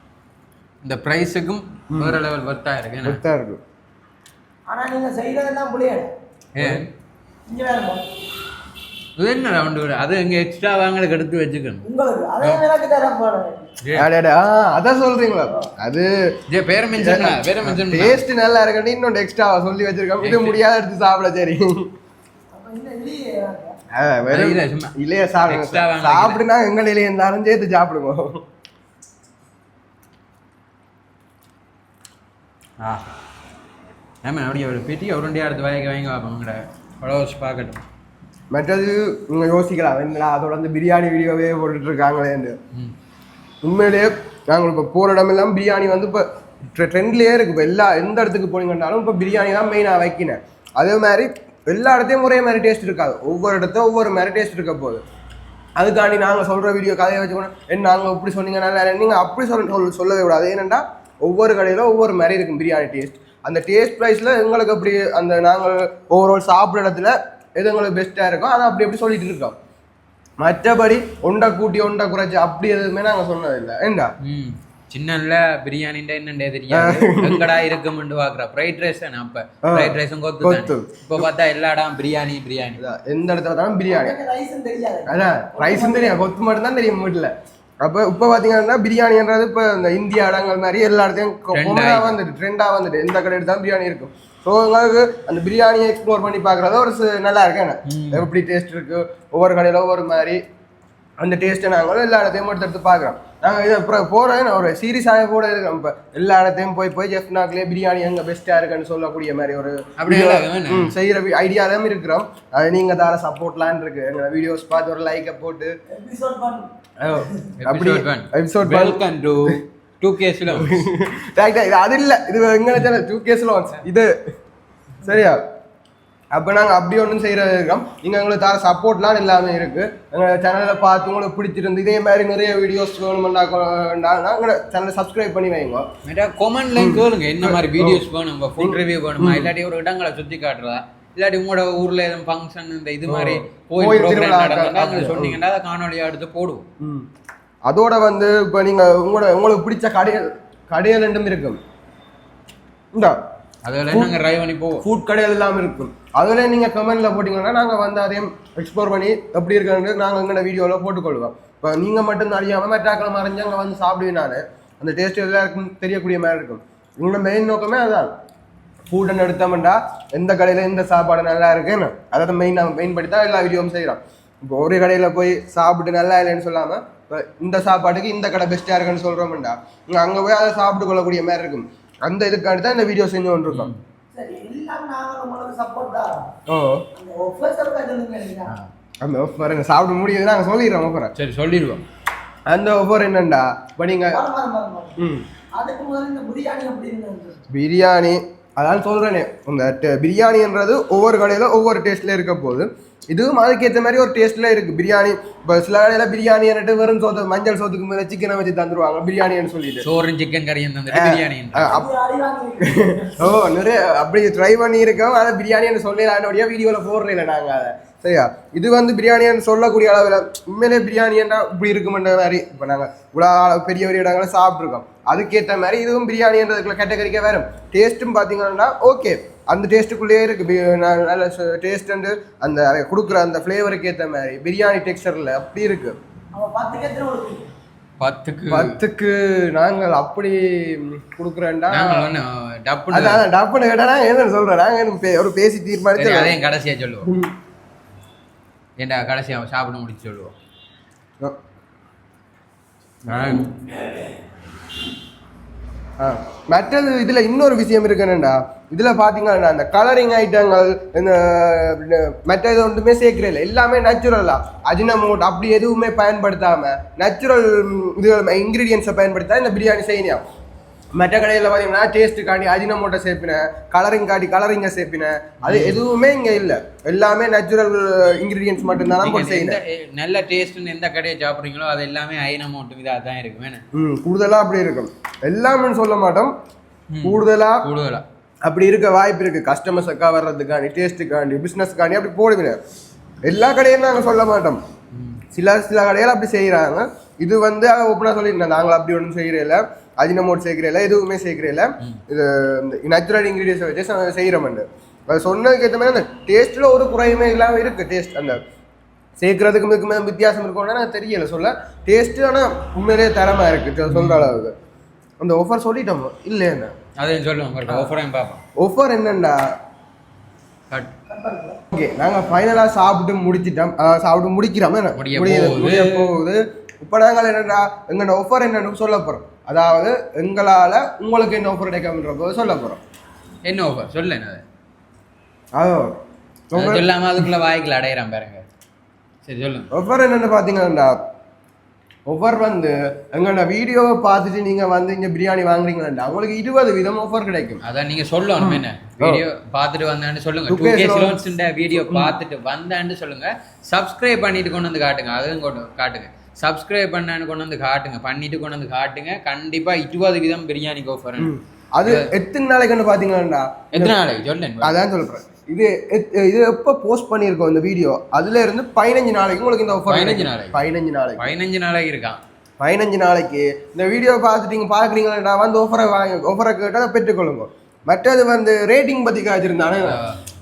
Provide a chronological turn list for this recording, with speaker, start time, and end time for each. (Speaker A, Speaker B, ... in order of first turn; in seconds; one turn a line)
Speaker A: 0.8-3.2
Speaker B: 1.9-2.2
Speaker B: 3.0-3.6
Speaker C: 4.7-6.1
Speaker A: 6.5-6.9
Speaker B: 6.6-6.8
Speaker C: 7.5-8.1
Speaker A: 9.2-11.9
Speaker C: 11.8-13.7
Speaker A: 12.4-12.7
Speaker A: 13.8-14.1
Speaker B: 13.9-16.1
Speaker A: 16.5-18.2
Speaker B: 16.9-21.9
Speaker A: 20.2-20.6
Speaker C: 22.5-23.8
Speaker B: 23.9-28.4
Speaker A: 24.3-26.4
Speaker A: 32.8-33.1
Speaker A: 34.2-37.8
Speaker B: 38.5-42.5
Speaker B: 43.6-55.0
Speaker B: 55.8-69.5
Speaker B: 70.4-74.1
Speaker A: 74.2-82.8
Speaker B: 76.7-77.5
Speaker B: 79.6-81.2
Speaker B: 82.8-84.2
Speaker C: 83.8-86.2
Speaker B: 85.1-87.3
Speaker B: 87.8-100.4
Speaker A: 91.5-92.2
Speaker A: 97.8-98.3
Speaker B: 101.2-115.7
Speaker A: 110.0-111.0
Speaker C: 115.9-116.7
Speaker B: 117.0-119.0
Speaker A: 117.6-120.9
Speaker B: 120.5-124.1
Speaker B: 125.0-125.4
Speaker B: 126.3-135.8
Speaker A: 136.0-146.7
Speaker B: 136.8-138.0
Speaker B: 138.6-139.5
Speaker B: 143.1-145.4
Speaker B: 146.8-147.1
Speaker B: 147.7-151.6
Speaker A: 153.6-154.8
Speaker B: 154.8-168.1
Speaker B: 168.9-183.7
Speaker A: 183.5-183.8
Speaker C: 184.1-186.3
Speaker B: 186.5-186.8
Speaker C: 186.9-188.5
Speaker B: 189.0-191.1
Speaker A: 191.1-191.8
Speaker B: 192.5-194.2
Speaker C: 194.1-197.4
Speaker B: 195.0-195.2
Speaker B: 197.5-209.8
Speaker A: 209.8-211.8
Speaker B: 210.9-211.9
Speaker C: 211.7-213.3
Speaker B: 212.7-235.9
Speaker C: 236.3-237.5
Speaker A: 238.0-238.8
Speaker B: 238.5-242.1
Speaker A: 241.7-243.2
Speaker B: 242.9-246.3
Speaker A: 245.9-247.1
Speaker A: 248.8-250.3
Speaker A: 253.1-253.6
Speaker B: 256.0-270.2
Speaker B: 270.9-279.6
Speaker A: 275.4-275.8
Speaker A: 279.0-283.6
Speaker B: 283.7-286.3
Speaker A: 286.9-288.1
Speaker B: 287.0-287.7
Speaker B: 288.4-292.6
Speaker B: 293.2-294.6
Speaker A: 294.9-295.2
Speaker B: 295.3-308.4
Speaker B: 309.2-314.5
Speaker A: 313.9-314.4
Speaker B: 315.2-316.7
Speaker A: 317.0-318.4
Speaker B: 318.6-319.4
Speaker C: 321.1-321.6
Speaker B: 321.7-332.8
Speaker A: 324.9-326.1
Speaker A: 333.4-334.4
Speaker B: 335.5-335.9
Speaker B: 336.5-336.9
Speaker A: 336.5-338.4
Speaker A: 339.2-339.7
Speaker B: 339.7-341.0
Speaker B: 342.1-347.6
Speaker A: 347.6-361.3
Speaker B: 348.4-349.2
Speaker B: 350.5-351.2
Speaker B: 351.7-352.1
Speaker B: 361.2-363.9
Speaker A: 361.8-362.1
Speaker A: 363.7-364.8
Speaker B: 364.6-371.3
Speaker A: 369.9-370.6
Speaker A: 371.2-372.2
Speaker B: 372.6-380.0
Speaker A: 379.8-380.2